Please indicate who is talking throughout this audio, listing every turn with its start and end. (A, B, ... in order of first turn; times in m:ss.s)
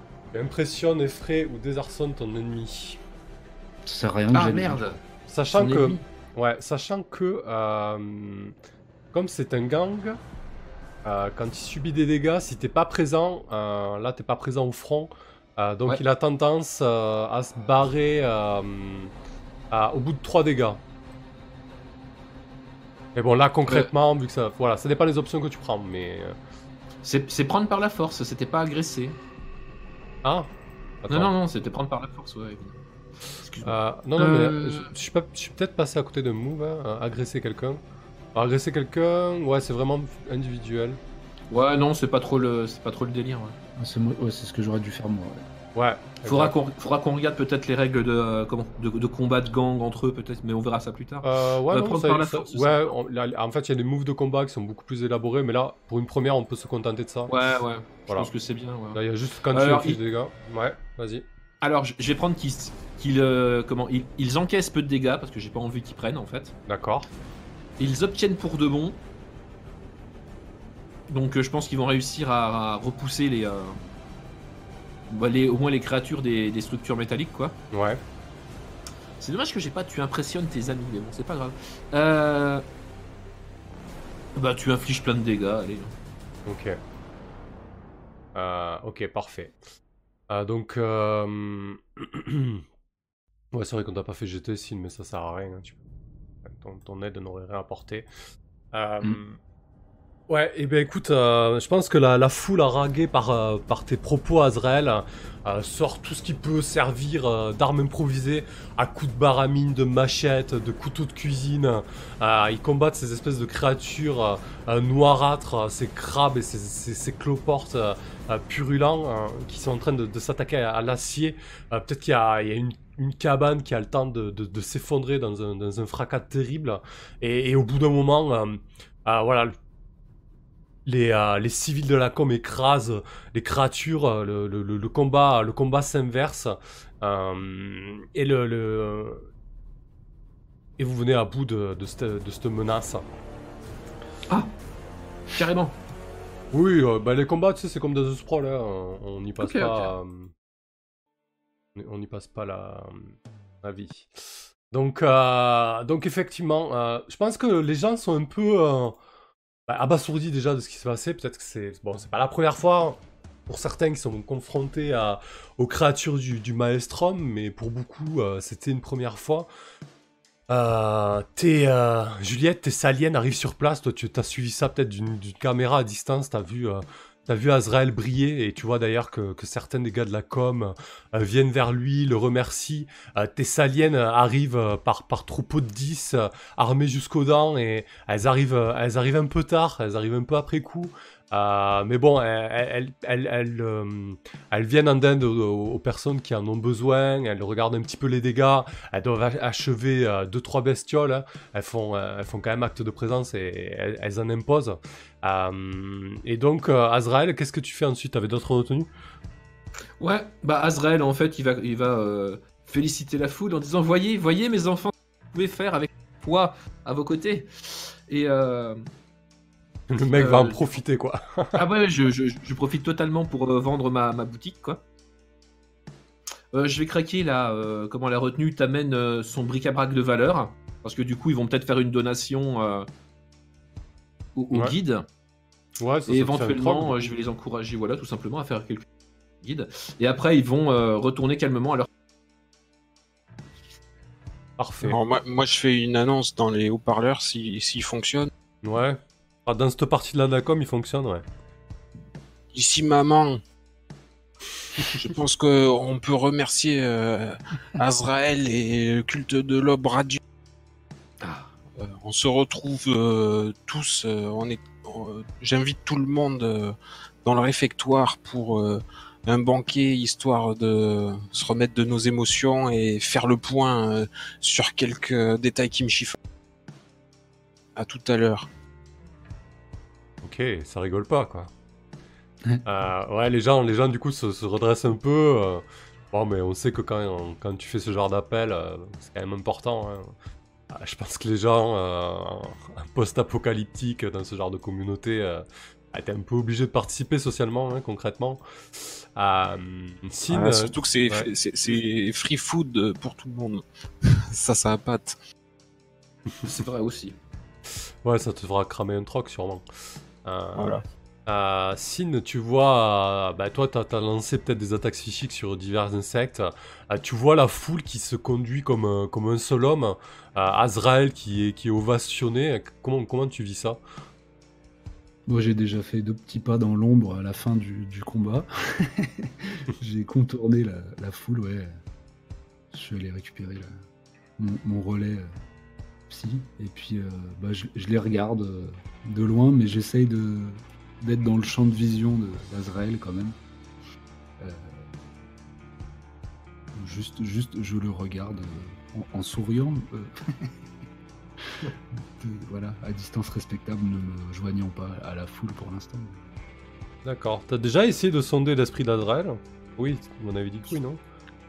0:00.3-0:03.0 A
0:03.8-0:05.0 B
0:04.3-0:05.0 C
0:05.3-0:08.5 A
0:05.5-0:06.0 C
0:09.1-0:10.2 A
0:11.0-0:19.1 A
0:19.7-0:20.8 A
0:23.2-0:26.4 A
0:27.0-0:29.2 C
0:30.2-0:30.5 A
0:31.0-0:31.3 A
0:31.1-0:32.8 C
0:33.4-0:34.9 C
0:33.6-0:37.8 A
0:38.4-0:41.0 A
0:41.5-0:43.6 C
0:43.8-0:45.4 B
0:45.8-0:46.5 A
0:46.2-0:52.8 C
0:51.2-0:57.3 A
0:57.3-0:59.0 C
0:58.9-1:01.2 A
0:59.5-1:00.0 C
1:01.6-1:06.6 C
1:06.7-1:07.1 A
1:07.8-1:09.0 C
1:11.1-1:13.8 C
1:15.1-1:17.6 C
1:17.7-1:18.0 A
1:19.2-1:22.6 C
1:24.4-1:26.0 C
1:26.5-1:26.8 A
1:28.4-1:29.6 A
1:30.3-1:32.6 A
1:33.5-1:35.8 A
1:36.4-1:38.1 A
1:38.7-1:39.4 A
1:40.3-2:09.5 A
2:10.9-2:19.3 A
2:20.8-2:23.1 A
2:25.3-2:25.8 C
2:26.5-2:30.3 A
2:29.4-2:29.9 C
2:31.8-2:34.2 A
2:34.7-2:39.0 A
2:39.7-2:49.5 A
2:50.5-3:28.9 A
3:30.0-3:38.9 C
3:39.9-3:41.6 A
3:40.1-3:40.7 C
3:41.6-3:44.8 C
3:46.5-3:52.9 C
3:54.4-3:55.1 C
3:55.8-3:57.1 A
3:56.1-3:58.9 C
3:59.4-4:01.9 C
4:04.6-4:05.0 A
4:04.8-4:08.3 D
4:08.6-4:11.2 A
4:12.5-4:13.4 D
4:15.0-4:20.2 D
4:21.2-4:21.5 C
4:21.8-4:36.2 D
4:37.8-4:38.5 D
4:40.2-4:41.5 A
4:42.6-4:50.1 A
4:50.7-5:01.3 A
5:00.3-5:05.2 D
5:06.4-5:07.2 C
5:08.0-5:09.6 A
5:10.2-5:23.8 A
5:10.6-5:10.8 D
5:25.3-5:31.8 B
5:32.7-5:33.8 B
5:34.4-5:35.3 B
5:36.1-5:43.4 B
5:44.4-5:44.9 B
5:46.7-5:50.6 B
5:51.9-5:56.2 B
5:57.0-6:01.0 A